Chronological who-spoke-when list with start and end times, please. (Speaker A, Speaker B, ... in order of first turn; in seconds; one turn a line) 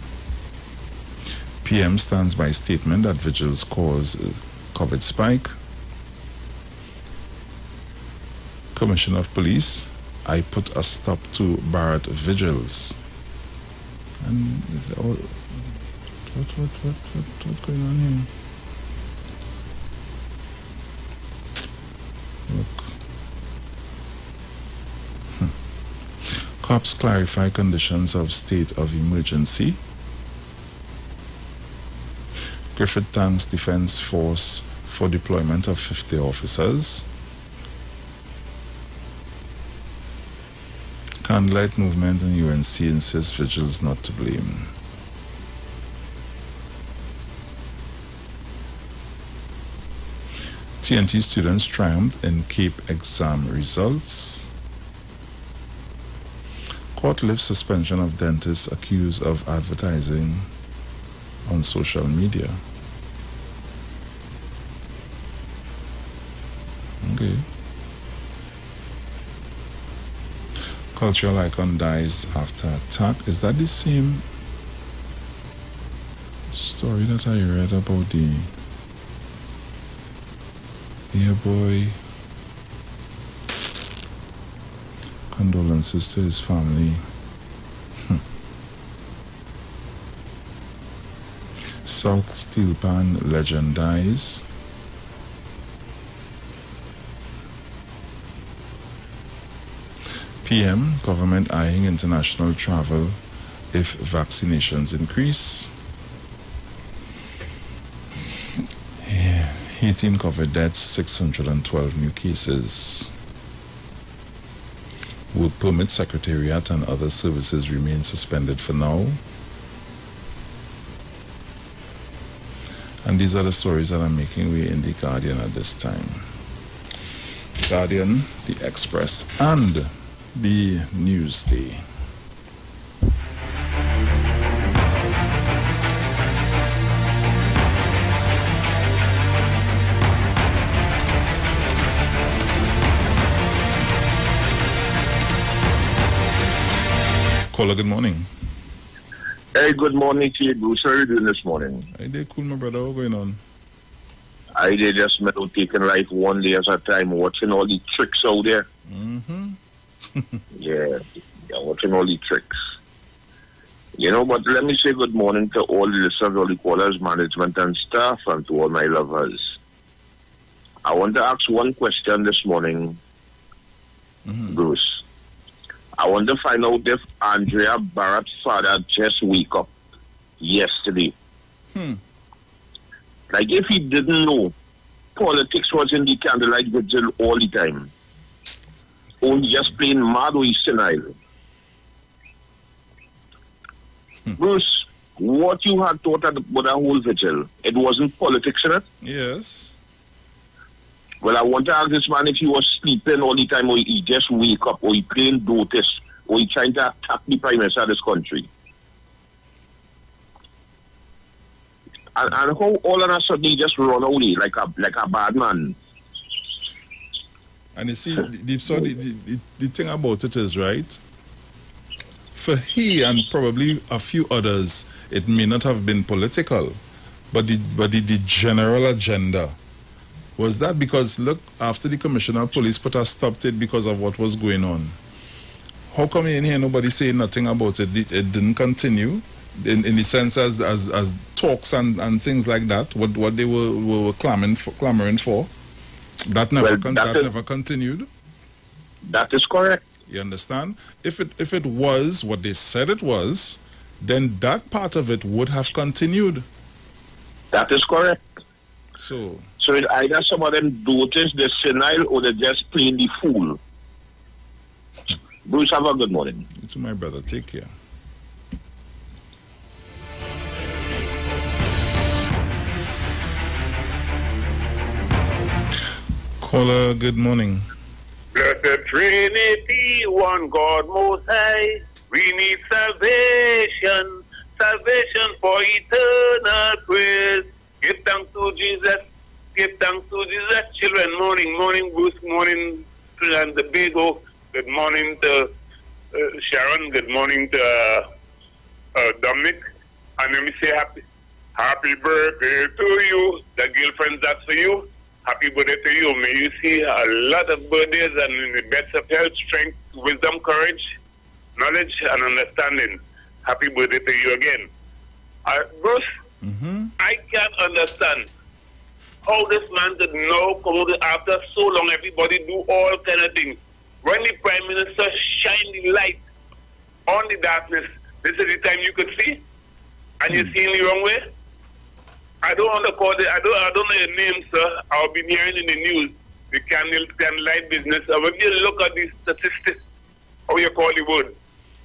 Speaker A: 1.6-5.5
Speaker A: 8.7-13.0
Speaker A: 14.2-15.7
Speaker A: 16.3-18.3
Speaker A: 22.5-22.9
Speaker A: 26.2-29.8
Speaker A: 32.7-37.1
Speaker A: 41.2-44.7
Speaker A: 50.8-54.5
Speaker A: 56.9-60.5
Speaker A: 61.5-62.6
Speaker A: 67.0-67.5
Speaker A: 70.9-74.2
Speaker A: 76.5-78.5
Speaker A: 81.1-82.0
Speaker A: 85.3-87.0
Speaker A: 91.8-94.5
Speaker A: 100.4-103.2
Speaker A: 103.7-105.7
Speaker A: 109.0-113.1
Speaker A: 115.3-119.2
Speaker A: 123.0-126.2
Speaker A: 127.6-131.8
Speaker A: 147.5-148.3
Speaker B: 149.5-151.8
Speaker A: 151.9-153.4
Speaker B: 154.6-158.7
Speaker A: 158.9-159.6
Speaker B: 160.5-162.6
Speaker B: 164.0-169.6
Speaker B: 170.8-173.0
Speaker A: 174.2-174.6
Speaker B: 174.5-175.0
Speaker B: 176.0-179.7
Speaker B: 180.4-181.1
Speaker A: 181.7-182.0
Speaker B: 183.3-184.5
Speaker B: 185.2-187.9
Speaker B: 189.2-191.1
Speaker B: 194.4-198.8
Speaker A: 199.0-199.7
Speaker B: 201.2-208.5
Speaker B: 212.2-215.8
Speaker A: 217.8-221.0
Speaker A: 222.3-226.8
Speaker A: 227.3-229.6
Speaker A: 230.4-235.0
Speaker A: 235.9-245.5
Speaker A: 246.2-248.1
Speaker B: 246.6-247.3
Speaker B: 249.1-249.8
Speaker A: 250.1-256.4
Speaker B: 257.5-258.2
Speaker A: 258.9-259.5
Speaker B: 259.6-263.6
Speaker B: 265.4-266.4
Speaker A: 266.6-267.7
Speaker A: 276.4-277.7
Speaker C: 278.3-289.0
Speaker C: 289.6-295.5
Speaker C: 296.1-298.1
Speaker C: 298.9-299.6
Speaker C: 300.2-301.0
Speaker C: 301.6-310.8
Speaker C: 311.6-314.6
Speaker C: 315.4-316.0
Speaker A: 316.4-316.9
Speaker C: 317.0-318.3
Speaker C: 319.2-326.2
Speaker C: 327.1-329.4
Speaker C: 330.2-331.2
Speaker C: 332.4-339.8
Speaker C: 340.5-341.3